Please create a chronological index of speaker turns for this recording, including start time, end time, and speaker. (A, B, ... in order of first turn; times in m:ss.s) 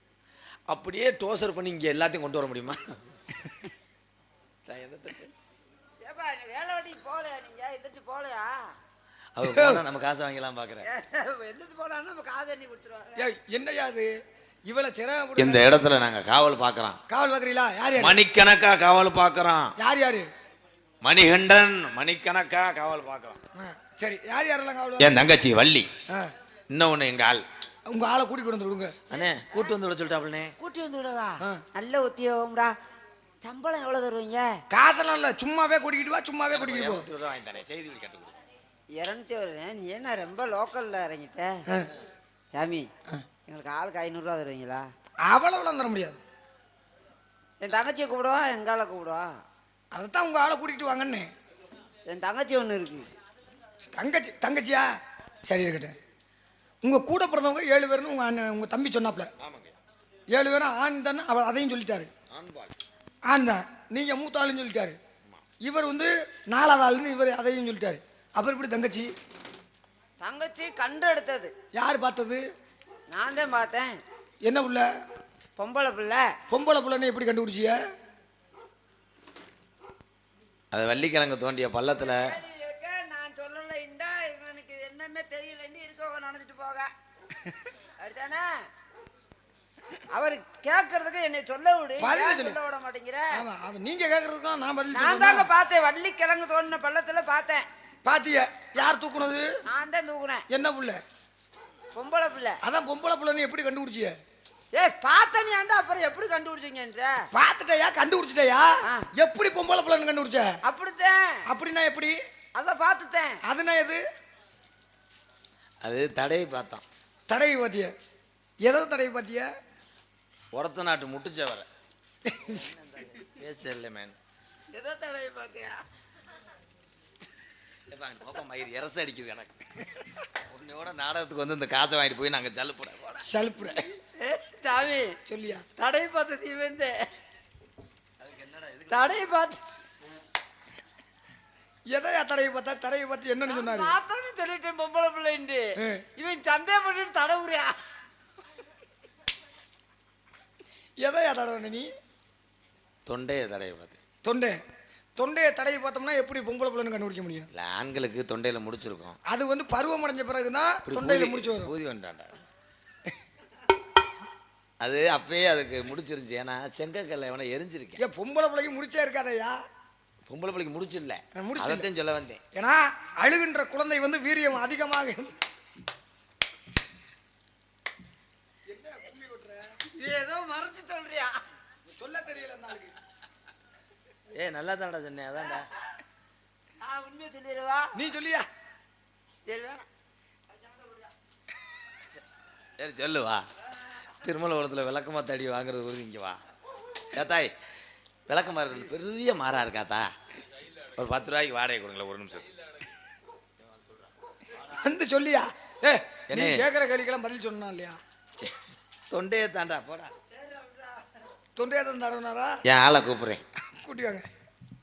0:00.7-0:03.2 A
0:04.7-0:05.3 A
0:06.0-0:08.6 B
0:09.4-0:10.8 A
0:09.4-0:09.8 C
0:10.9-0:13.2 B
0:13.2-0:14.1 C
0:14.7-0:15.7 C
0:15.4-0:17.0 A
0:17.1-0:18.2 C
0:18.0-0:19.7 A
0:19.8-0:20.3 C
0:21.0-0:23.4 A
0:23.6-0:25.2 C
0:25.0-0:25.9 A
0:26.7-0:27.4 A
0:27.9-0:29.0 C
0:29.1-0:30.6 A
0:29.1-0:29.7 B
0:30.6-0:32.7 B
0:33.4-0:34.5 B
0:34.7-0:37.1 C
0:36.5-0:38.3 A
0:39.0-0:41.6 B
0:42.5-0:42.9 B
0:43.5-0:44.8 B
0:45.2-0:46.2 C
0:47.6-0:49.3 B
0:49.9-0:51.3 C
0:52.1-0:53.1 B
0:53.8-0:54.9 C
0:55.4-0:56.0 C
0:56.8-0:59.3 C
0:59.4-0:59.8 A
1:00.3-1:02.1 C
1:02.3-1:02.7 A
1:03.3-1:05.0 C
1:05.6-1:09.1 C
1:10.2-1:11.5 B
1:11.7-1:12.4 C
1:13.1-1:14.0 B
1:14.4-1:14.9 C
1:15.6-1:16.3 B
1:16.5-1:17.8 C
1:20.7-1:22.4 A
1:22.0-1:26.9 B
1:28.0-1:28.5 B
1:30.1-1:33.3 B
1:32.0-1:32.6 C
1:33.3-1:35.5 C
1:34.9-1:37.6 B
1:38.0-1:39.5 C
1:39.7-1:40.4 B
1:40.5-1:41.0 C
1:42.0-1:42.6 B
1:42.6-1:44.2 C
1:44.7-1:47.2 B
1:47.3-1:50.6 C
1:50.6-1:51.4 B
1:51.5-1:52.2 C
1:52.6-1:53.4 B
1:53.4-1:54.0 C
1:55.8-1:56.8 A
1:57.3-1:57.9 C
1:58.6-1:59.5 C
2:00.5-2:01.7 A
2:02.3-2:02.7 C
2:02.4-2:04.2 A
2:04.7-2:05.8 B
2:07.9-2:09.6 A
2:10.4-2:13.2 A
2:13.2-2:13.9 C
2:14.2-2:15.2 B
2:15.3-2:15.6 C
2:15.8-2:17.0 B
2:18.2-2:19.2 A
2:18.9-2:19.6 B
2:21.9-2:24.0 C
2:23.4-2:27.8 B
2:25.8-2:26.0 C
2:31.0-2:31.9 C
2:33.1-2:34.0 A
2:34.2-2:34.6 C
2:35.2-2:37.5 C
2:37.5-2:39.2 A
2:39.3-2:41.7 C
2:40.9-2:42.3 A
2:44.8-2:48.0 A
2:48.0-2:49.6 C
2:50.3-2:52.4 A
2:51.4-2:51.9 C
2:52.5-2:55.3 C
2:58.7-2:59.8 C
3:00.0-3:01.4 B
3:01.9-3:02.9 C
3:04.3-3:05.7 A
3:06.8-3:08.0 B
3:08.0-3:08.4 C
3:09.5-3:09.9 B
3:10.5-3:11.1 B
3:12.8-3:13.5 A
3:14.2-3:16.4 A
3:17.1-3:17.5 A
3:18.3-3:20.1 A
3:20.6-3:22.5 A
3:23.6-3:24.1 A
3:24.6-3:28.0 C
3:26.3-3:26.6 A
3:29.1-3:30.1 A
3:30.3-3:31.1 B
3:31.6-3:32.6 C
3:32.7-3:33.4 A
3:33.8-3:34.2 C